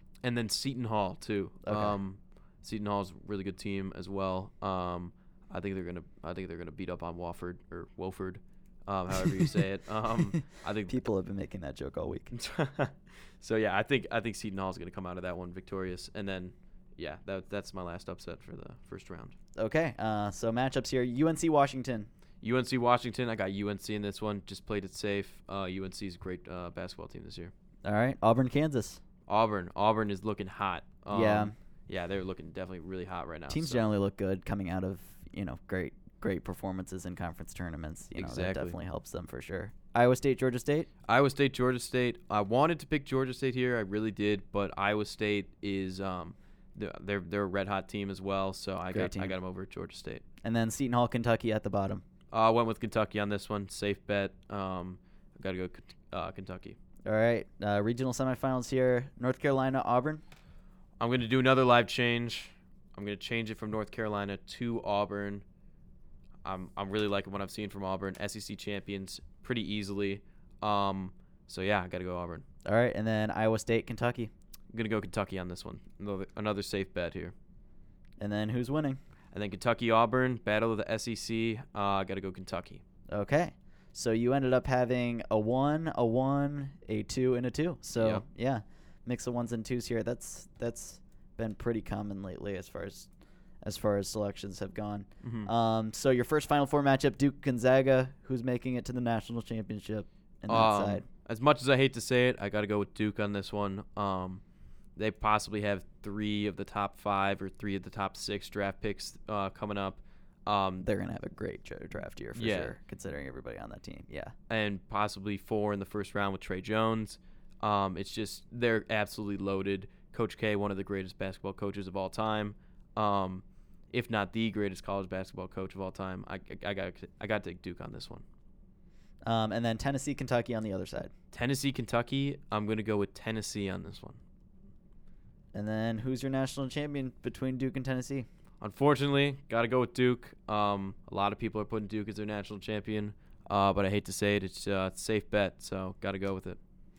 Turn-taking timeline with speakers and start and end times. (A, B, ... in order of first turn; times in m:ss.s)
0:00.2-0:11.0 A
0:01.6-0:02.0 B
0:10.9-0:12.3 B
0:12.3-0:19.4 A
0:19.6-0:22.1 B
0:22.4-0:27.5 A
0:27.8-0:29.0 B
0:29.3-0:33.9 A
0:31.1-0:31.5 B
0:33.5-0:40.9 B
0:38.2-0:38.8 A
0:41.1-0:50.2 A
0:48.9-0:49.4 B
0:50.4-0:52.0 B
0:52.3-0:56.8 A
0:57.1-1:00.2 B
1:01.0-1:05.4 A
1:06.4-1:12.4 A
1:12.6-1:14.3 B
1:14.7-1:17.3 A
1:18.2-1:19.0 B
1:19.3-1:22.8 A
1:23.1-1:33.1 B
1:27.9-1:28.2 A
1:33.6-1:41.0 B
1:35.2-1:35.5 A
1:40.5-1:44.4 A
1:45.0-1:50.8 A
1:50.8-1:54.3 B
1:52.4-1:52.8 A
1:54.5-2:08.2 A
2:09.2-2:11.1 B
2:11.3-2:14.2 A
2:15.5-2:18.3 B
2:18.6-2:26.6 A